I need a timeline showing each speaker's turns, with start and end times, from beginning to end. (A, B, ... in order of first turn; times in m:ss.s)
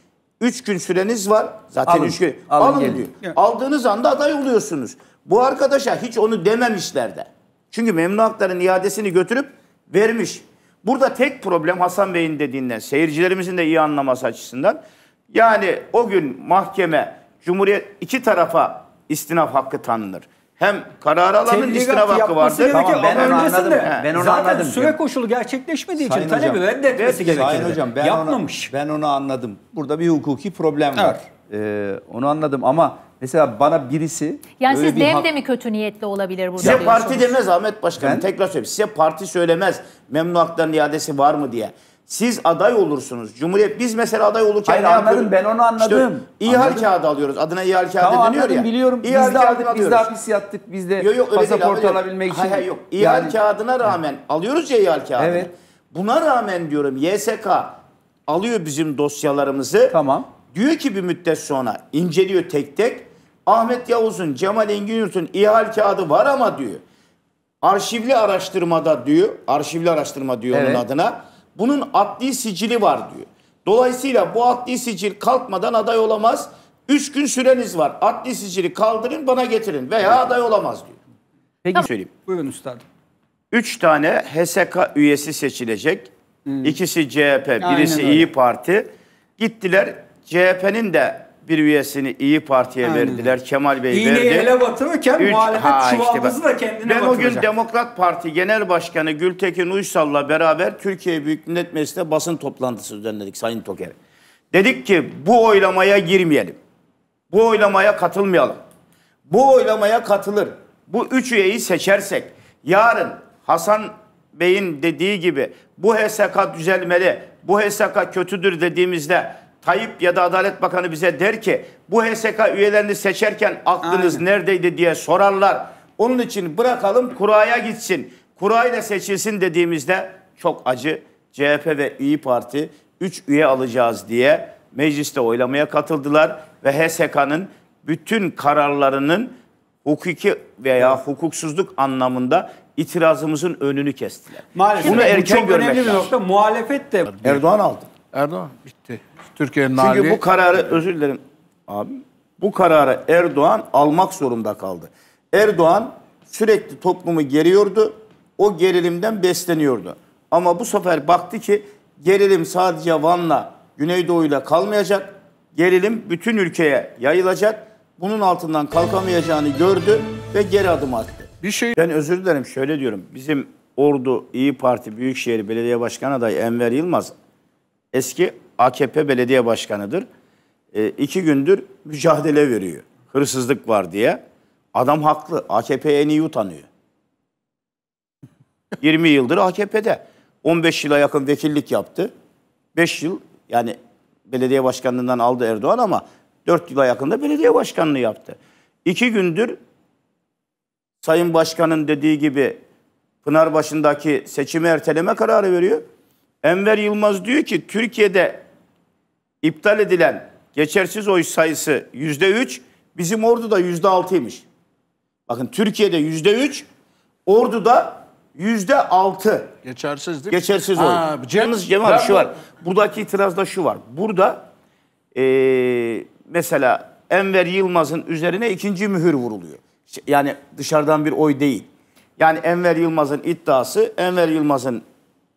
0:00.4-0:14.8 A
0:01.8-0:03.1 B
0:15.3-0:24.1 A
0:21.4-0:28.7 C
0:22.7-0:25.0 B
0:26.0-0:35.3 B
0:26.9-0:27.7 A
0:34.6-0:37.3 D
0:36.6-0:36.8 B
0:36.6-0:50.1 A
0:38.0-0:38.2 B
0:44.7-0:46.9 B
0:48.0-0:53.4 B
0:51.0-1:00.0 A
0:55.2-0:55.5 B
0:59.9-1:00.3 B
1:00.5-1:06.8 A
1:07.6-1:21.0 A
1:10.5-1:10.8 B
1:21.7-1:22.8 C
1:21.7-1:22.1 A
1:23.5-1:26.1 A
1:26.5-1:26.7 C
1:26.6-1:34.5 A
1:27.6-1:28.3 C
1:32.8-1:33.3 C
1:33.9-1:37.5 C
1:35.2-1:44.0 A
1:44.5-1:46.6 A
1:47.3-1:48.6 A
1:49.3-2:26.1 A
2:03.8-2:04.2 C
2:24.5-2:27.1 C
2:27.1-2:27.4 E
2:27.2-2:27.9 A
2:28.1-2:30.2 E
2:29.7-2:57.1 A
2:51.4-2:51.7 E
2:57.9-3:00.0 A
3:00.7-3:04.2 A
3:04.7-3:06.7 A
3:08.8-3:12.1 A
3:12.7-3:13.8 A
3:14.3-3:19.6 A
3:21.0-3:22.6 A
3:23.2-3:25.8 A
3:26.4-3:28.4 A
3:29.4-3:34.4 A
3:35.3-3:36.6 A
3:37.2-3:39.5 A
3:39.6-3:42.3 E
3:40.3-3:44.4 A
3:45.1-3:54.8 A